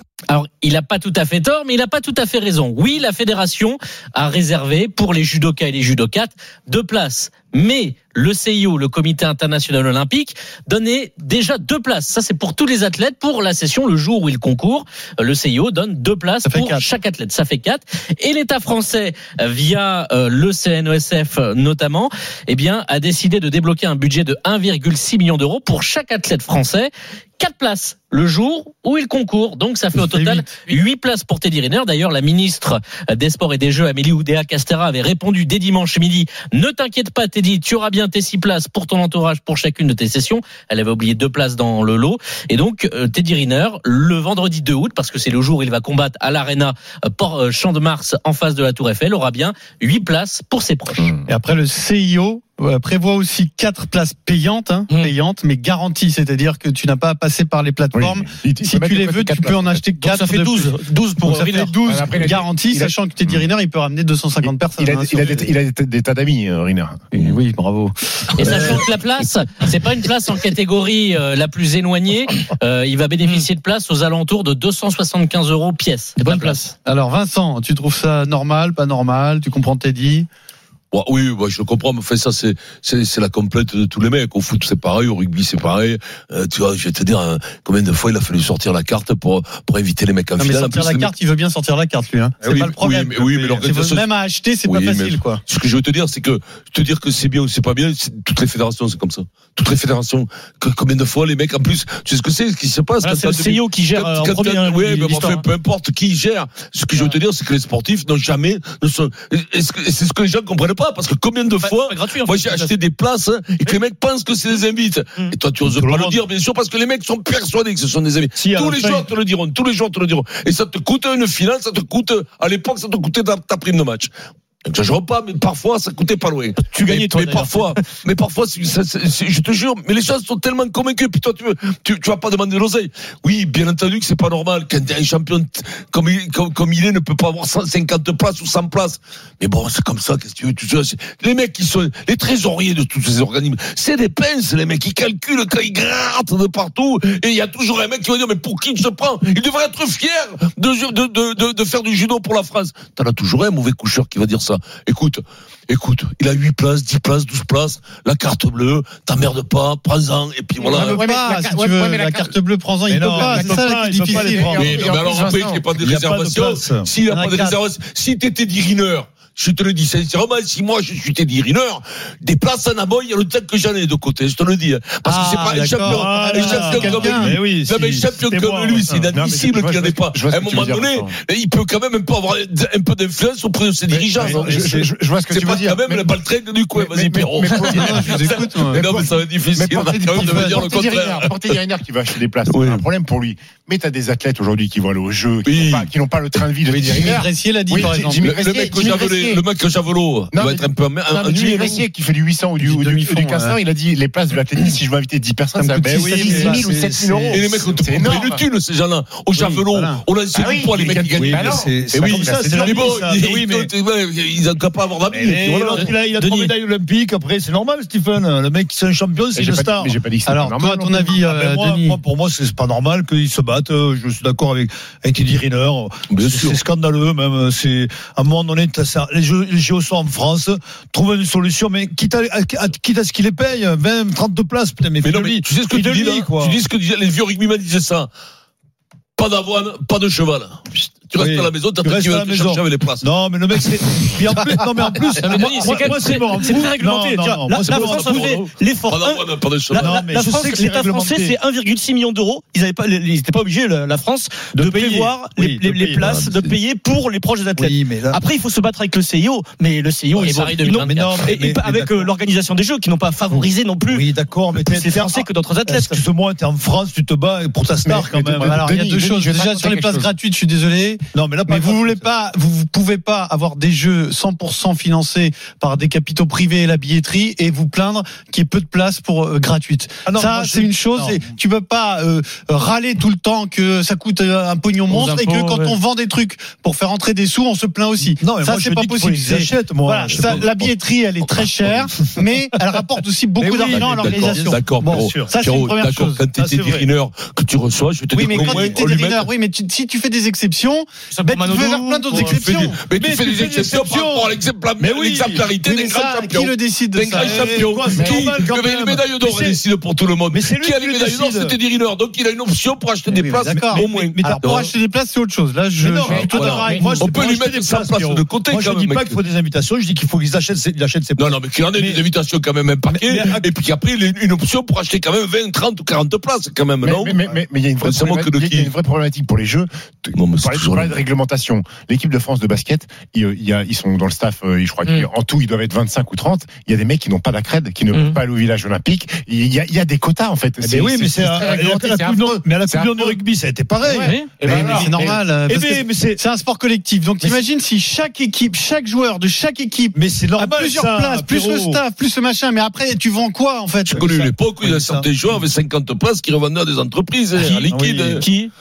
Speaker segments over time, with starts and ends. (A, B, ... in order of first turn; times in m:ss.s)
0:00.3-0:51.1 A
0:16.4-0:16.8 B
0:30.0-0:30.5 B
0:51.3-1:05.5 B
0:57.9-0:59.8 C
1:00.0-1:02.0 D
1:01.8-1:03.3 C
1:04.4-1:07.2 C
1:07.1-1:08.6 B
1:08.4-1:16.5 A
1:16.2-1:16.7 D
1:16.8-1:20.3 B
1:20.9-1:31.1 E
1:30.4-1:35.4 B
1:32.4-1:34.0 E
1:34.6-2:04.1 E
1:43.0-1:45.4 D
1:51.6-1:52.7 D
1:55.6-1:56.2 F
1:58.4-1:59.0 F
2:04.6-2:41.0 E
2:06.6-2:07.8 D
2:40.6-2:42.3 C
2:40.7-2:44.6 B
2:42.9-2:44.9 F
2:44.3-2:45.6 C
2:44.6-3:04.7 E
2:45.8-2:46.9 F
2:47.1-2:47.6 B
2:55.0-2:57.3 B
2:55.8-2:59.1 F
2:59.1-3:01.1 C
3:03.9-3:06.1 C
3:04.2-3:04.9 F
3:05.3-3:11.4 E
3:06.7-3:19.4 C
3:07.7-3:08.9 B
3:12.5-3:12.8 E
3:15.4-3:16.4 E
3:16.7-3:18.2 B
3:17.8-3:21.8 E
3:20.3-3:28.4 C
3:22.6-3:23.6 B
3:25.6-3:26.7 B
3:25.6-3:27.4 F
3:27.3-3:35.9 E
3:29.3-3:30.0 B
3:30.3-3:32.8 C
3:31.2-3:33.7 F
3:35.1-3:39.9 F
3:36.1-3:36.5 D
3:39.4-3:41.2 C
3:40.2-3:42.0 B
3:41.0-3:56.6 F
3:46.1-3:46.6 E
3:55.0-3:58.1 E
3:59.2-4:03.0 E
4:01.2-4:08.4 F
4:05.2-4:26.0 D
4:05.3-4:05.9 E
4:07.6-4:10.1 E
4:09.8-4:11.3 F
4:14.5-4:16.1 F
4:16.0-4:16.5 E
4:17.6-4:18.2 F
4:20.2-4:21.0 A
4:20.7-4:22.1 F
4:23.3-4:28.6 F
4:27.8-4:30.1 C
4:28.3-4:56.2 B
4:31.1-4:32.1 F
4:40.0-4:41.2 F
4:44.9-4:45.6 D
4:45.1-4:45.5 F
4:48.2-4:50.5 F
4:50.1-4:50.7 E
4:51.2-4:51.9 E
4:53.4-4:55.3 F
4:53.7-4:59.3 E
4:56.4-4:56.8 F
4:58.1-5:02.8 B
4:58.2-4:58.8 F
5:01.1-5:02.4 D
5:02.1-5:14.7 E
5:02.9-5:05.5 F
5:05.6-5:07.6 B
5:07.2-5:09.6 F
5:08.0-5:08.2 C
5:10.3-5:11.5 F
5:13.3-5:17.2 B
5:13.5-5:14.4 F
5:15.8-5:22.0 F
5:16.0-5:17.0 C
5:16.2-5:19.2 E
5:21.2-5:27.2 E
5:22.9-5:23.5 F
5:26.8-5:43.2 C
5:27.8-5:28.7 E
5:30.2-5:31.0 E
5:40.6-5:46.2 F
5:43.8-5:45.2 C
5:44.4-5:54.1 B
5:49.9-5:51.8 F
5:53.9-5:58.2 E
5:53.9-5:55.1 F
5:57.4-5:58.2 F
5:58.2-5:58.5 D